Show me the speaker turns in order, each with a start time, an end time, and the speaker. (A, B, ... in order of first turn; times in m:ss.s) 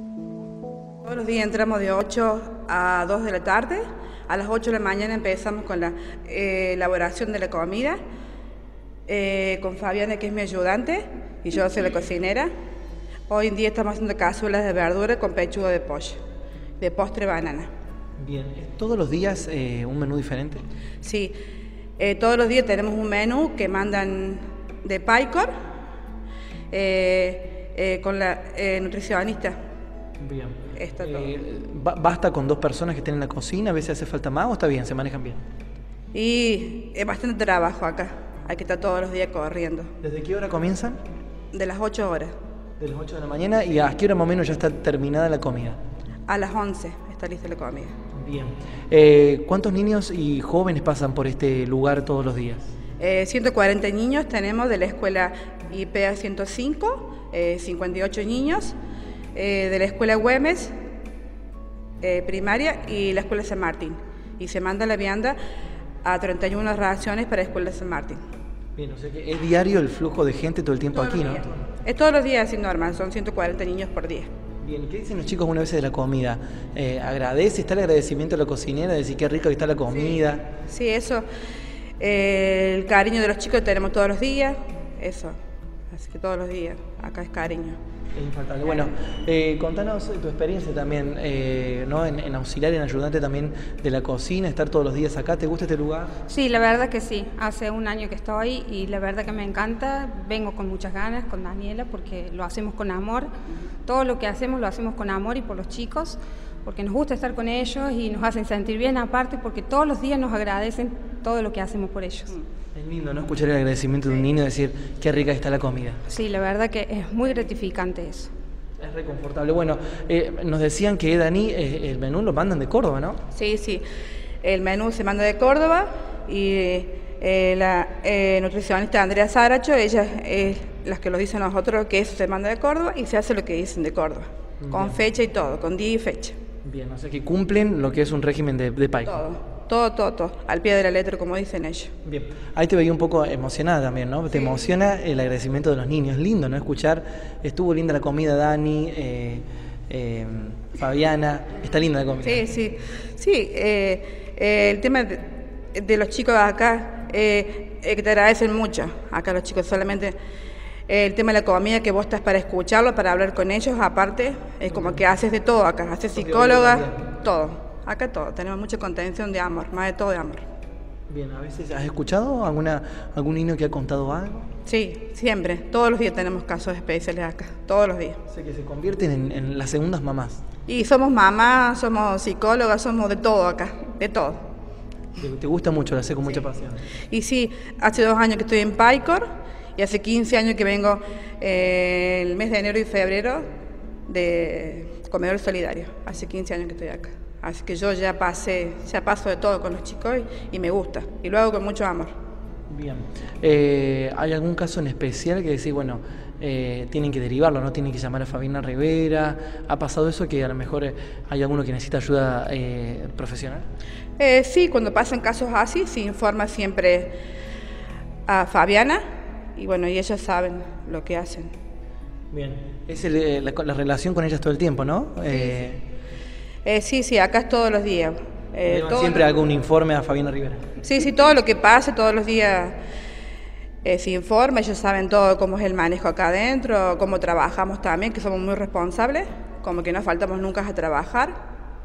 0:01.0-0:08.0 A
0:09.1-0:12.5 A
0:13.3-0:16.2 A
0:16.8-0:17.7 A
0:18.2-0:20.6 B
0:21.0-0:21.3 A
0:22.0-0:25.5 A
0:26.7-0:29.6 A
0:30.2-0:35.4 B
0:30.7-0:31.3 A
0:36.1-0:39.9 A
0:40.0-0:41.0 B
0:41.5-0:42.3 A
0:42.8-0:45.8 B
0:46.3-0:47.9 A
0:48.2-0:52.7 B
0:53.0-0:58.8 A
0:59.3-1:00.7 A
1:02.0-1:05.4 A
1:06.0-1:08.2 A
1:08.8-1:11.6 B
1:10.9-1:14.3 A
1:14.6-1:20.5 B
1:20.6-1:21.2 A
1:22.0-1:25.4 A
1:25.9-1:27.8 A
1:28.1-1:36.1 B
1:36.3-1:43.3 C
1:43.8-1:52.3 C
1:52.7-1:56.0 B
1:56.1-1:58.3 C
1:58.8-2:03.2 B
2:03.3-2:03.8 A
2:04.4-2:16.4 A
2:14.6-2:15.0 B
2:16.6-2:19.2 B
2:19.0-2:21.9 A
2:22.0-2:32.4 B
2:32.2-2:40.2 A
2:40.9-2:50.4 A
2:44.7-2:45.0 B
2:46.1-2:47.0 B
2:51.1-2:54.5 B
2:54.6-2:58.2 A
2:58.3-3:00.4 B
3:00.7-3:04.4 A
3:05.2-3:06.8 B
3:07.1-3:13.5 A
3:14.1-3:22.1 A
3:22.7-3:33.6 B
3:34.2-3:37.2 A
3:38.3-3:39.0 A
3:39.5-3:41.5 A
3:42.3-3:45.8 B
3:45.3-3:45.6 A
3:46.6-3:49.3 A
3:48.6-3:50.6 B
3:50.8-3:52.8 A
3:53.8-4:01.4 A